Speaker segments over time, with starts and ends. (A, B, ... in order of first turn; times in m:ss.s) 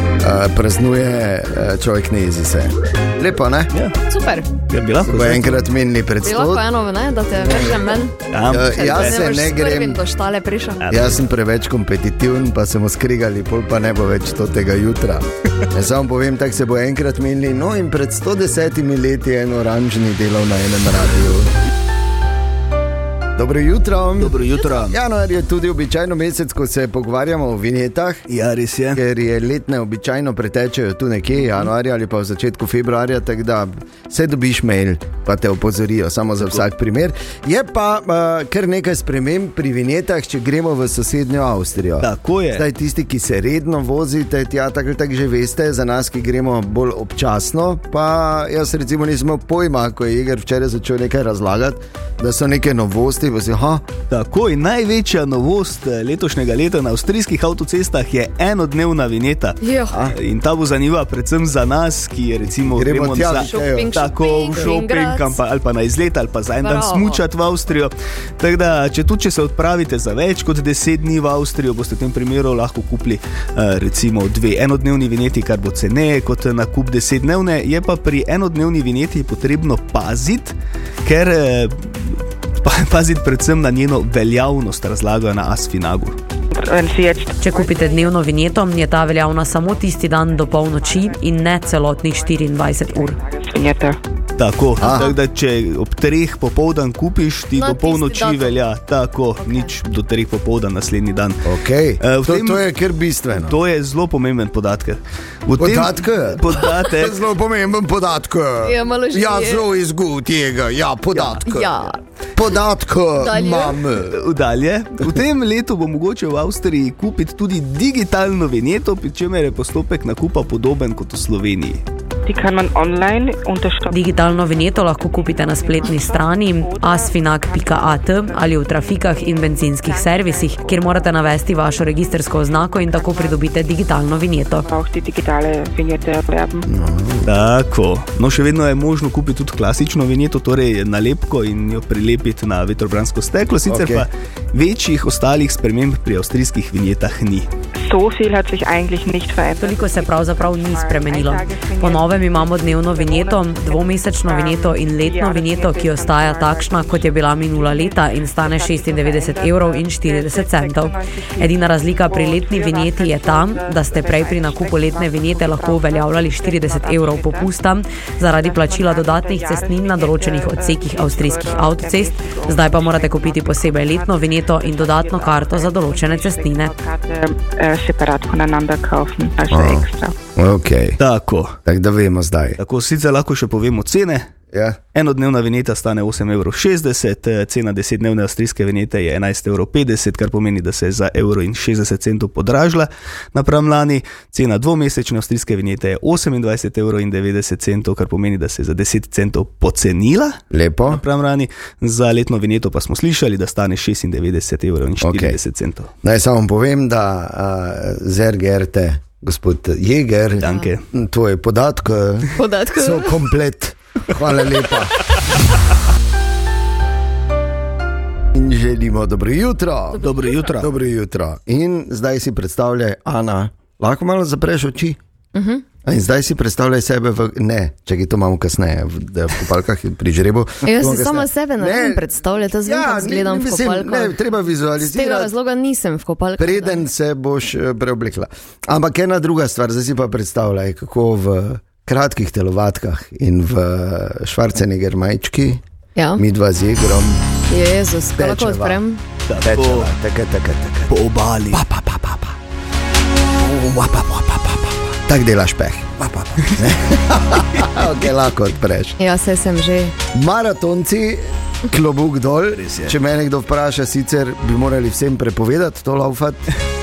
0:00.2-0:03.7 A
0:04.1-0:04.5 B
0:04.7-0:05.6 C
0:05.0-0:06.7 A
0:06.2-0:10.9 B
0:07.5-0:07.8 A
0:08.3-0:09.2 C
0:08.5-0:10.0 A
0:10.8-0:11.2 C
0:10.9-0:21.6 A
0:23.4-0:28.2 A
0:24.2-0:25.0 C
0:28.3-0:29.0 C
0:28.9-0:53.9 A
0:42.0-0:42.7 C
0:54.1-1:26.2 C
0:59.6-1:00.0 B
0:59.9-1:00.2 A
1:02.7-1:04.0 A
1:03.4-1:05.4 B
1:06.6-1:07.2 B
1:26.5-1:28.2 D
1:27.4-1:33.2 E
1:29.5-1:34.0 D
1:34.4-1:41.5 C
1:34.8-1:35.1 A
1:37.6-1:38.6 B
1:39.4-1:39.7 B
1:41.4-1:43.6 A
1:42.0-1:42.6 C
1:43.3-1:47.2 C
1:45.6-1:51.8 A
1:48.6-1:49.6 B
1:51.1-1:51.4 C
1:51.4-1:52.0 B
1:52.4-1:54.2 A
1:53.2-1:53.8 B
1:54.1-2:01.8 C
2:02.3-2:13.9 D
2:03.9-2:14.7 E
2:14.6-2:16.7 D
2:16.7-2:17.4 A
2:17.2-2:27.5 C
2:23.7-2:24.1 A
2:27.8-2:47.6 D
2:29.6-2:56.7 E
2:48.2-3:00.2 D
2:59.5-3:01.0 A
3:01.0-3:01.6 C
3:01.7-3:02.6 A
3:02.6-3:04.3 C
3:04.5-3:04.8 A
3:04.9-3:25.9 C
3:20.5-3:21.0 A
3:25.0-3:25.4 A
3:26.0-3:35.0 A
3:30.4-3:30.8 C
3:32.4-3:33.2 B
3:38.3-3:45.0 A
3:40.0-3:40.7 C
3:45.4-3:45.6 B
3:45.8-3:52.1 A
3:50.6-3:54.2 B
3:52.6-3:55.3 A
3:54.8-3:56.8 B
3:56.4-4:05.6 A
4:06.0-4:06.2 B
4:06.2-4:07.2 A
4:07.5-4:09.0 B
4:08.2-4:08.8 A
4:09.3-4:09.9 C
4:09.4-4:10.9 A
4:10.9-4:11.6 C
4:11.5-4:12.4 A
4:13.4-4:19.0 A
4:19.0-4:20.0 B
4:20.1-4:26.5 A
4:22.6-4:23.0 C